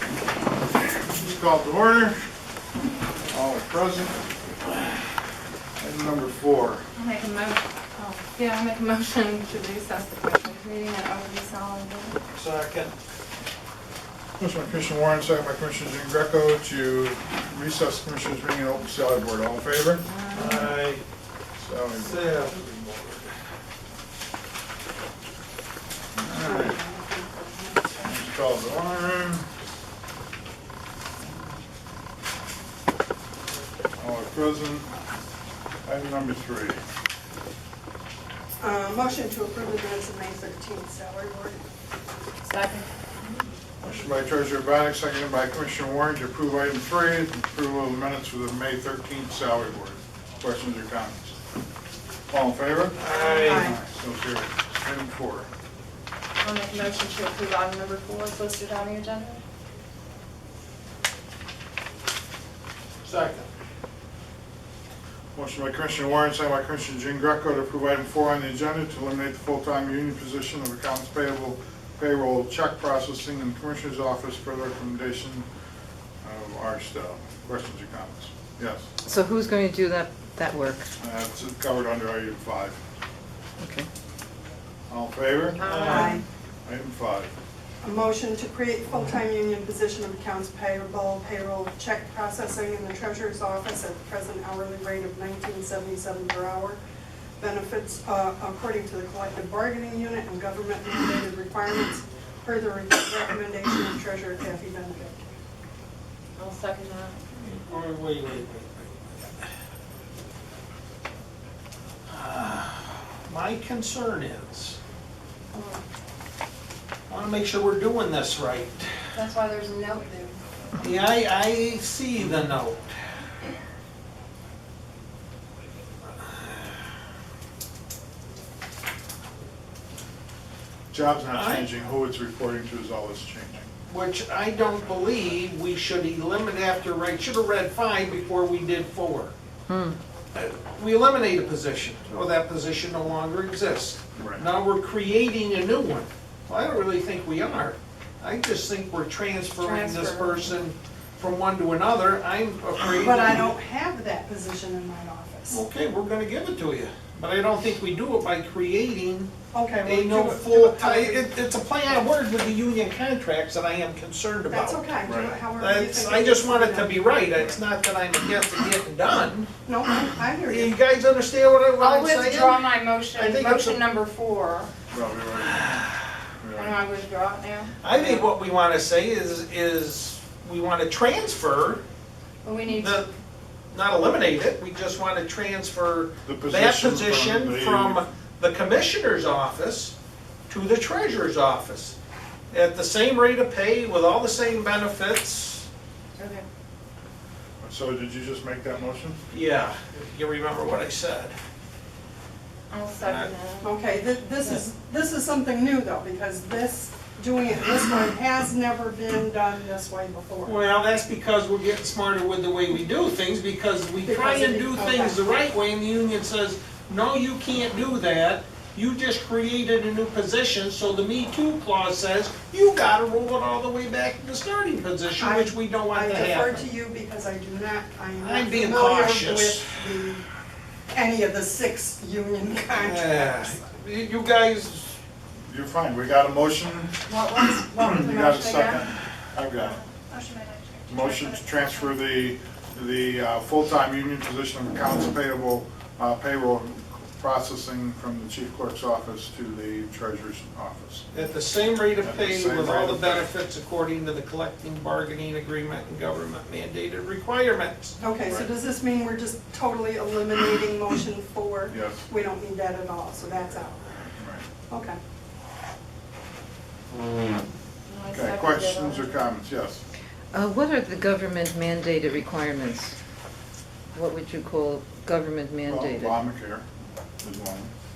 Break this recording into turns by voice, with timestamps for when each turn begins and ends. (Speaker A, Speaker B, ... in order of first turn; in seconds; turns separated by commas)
Speaker A: 1.1-2.2, Speaker A: 3.3-4.2, Speaker A: 5.8-6.8, Speaker B: 7.0-12.2, Speaker C: 12.3-12.9, Speaker A: 14.4-20.0, Speaker C: 20.3-21.0, Speaker B: 20.4-20.6, Speaker A: 21.6-22.5, Speaker C: 21.9-23.3, Speaker D: 26.3-27.9, Speaker A: 26.3-26.7, Speaker A: 28.0-29.4, Speaker A: 34.0-34.9, Speaker A: 35.8-36.8, Speaker D: 38.6-41.6, Speaker B: 42.4-42.9, Speaker A: 43.8-51.3, Speaker A: 52.3-55.5, Speaker C: 53.0-53.7, Speaker D: 53.4-53.8, Speaker B: 56.4-59.4, Speaker C: 63.0-63.5, Speaker A: 65.3-75.5, Speaker A: 76.2-78.9, Speaker E: 79.0-80.9, Speaker A: 81.0-82.8, Speaker E: 83.6-83.9, Speaker A: 84.9-86.0, Speaker B: 85.6-86.2, Speaker C: 85.6-86.2, Speaker D: 85.8-86.2, Speaker A: 86.6-87.3, Speaker D: 87.8-96.8, Speaker D: 97.4-105.3, Speaker B: 106.4-107.2, Speaker C: 107.4-109.4, Speaker C: 112.1-114.8, Speaker B: 115.5-115.8, Speaker C: 117.1-118.9, Speaker B: 119.1-120.3, Speaker C: 120.8-122.9, Speaker A: 130.9-133.7, Speaker C: 131.3-131.7, Speaker C: 133.9-139.3, Speaker E: 139.7-140.0, Speaker C: 140.3-153.4, Speaker A: 144.2-144.4, Speaker B: 149.6-150.5, Speaker D: 152.8-155.6, Speaker C: 155.5-164.9, Speaker D: 159.5-161.3, Speaker D: 164.5-167.1, Speaker A: 165.0-165.3, Speaker C: 165.6-169.5, Speaker D: 169.6-170.7, Speaker C: 170.4-173.8, Speaker B: 171.8-174.7, Speaker A: 174.9-175.7, Speaker C: 175.4-176.1, Speaker A: 176.4-176.8, Speaker B: 176.5-178.3, Speaker C: 177.8-181.8, Speaker B: 182.4-183.1, Speaker C: 182.7-183.1, Speaker C: 183.7-189.9, Speaker A: 186.2-188.0, Speaker C: 190.5-191.9, Speaker C: 192.5-195.7, Speaker B: 196.2-196.4, Speaker A: 197.6-199.2, Speaker C: 199.3-201.3, Speaker B: 202.7-204.6, Speaker C: 203.0-203.3, Speaker D: 203.6-210.6, Speaker C: 210.4-226.7, Speaker D: 214.0-215.2, Speaker D: 225.2-230.3, Speaker C: 228.2-229.7, Speaker D: 230.9-233.6, Speaker C: 232.7-235.0, Speaker A: 235.5-239.8, Speaker B: 237.1-239.0, Speaker B: 239.6-241.6, Speaker A: 240.9-251.1, Speaker C: 251.1-258.0, Speaker A: 252.0-253.3, Speaker D: 258.0-263.9, Speaker A: 258.2-258.5, Speaker A: 261.7-262.1, Speaker A: 264.1-264.4, Speaker D: 264.7-265.0, Speaker B: 267.9-269.2, Speaker A: 268.1-269.8, Speaker E: 270.3-272.9, Speaker E: 273.9-276.2, Speaker A: 275.7-276.6, Speaker A: 277.2-277.7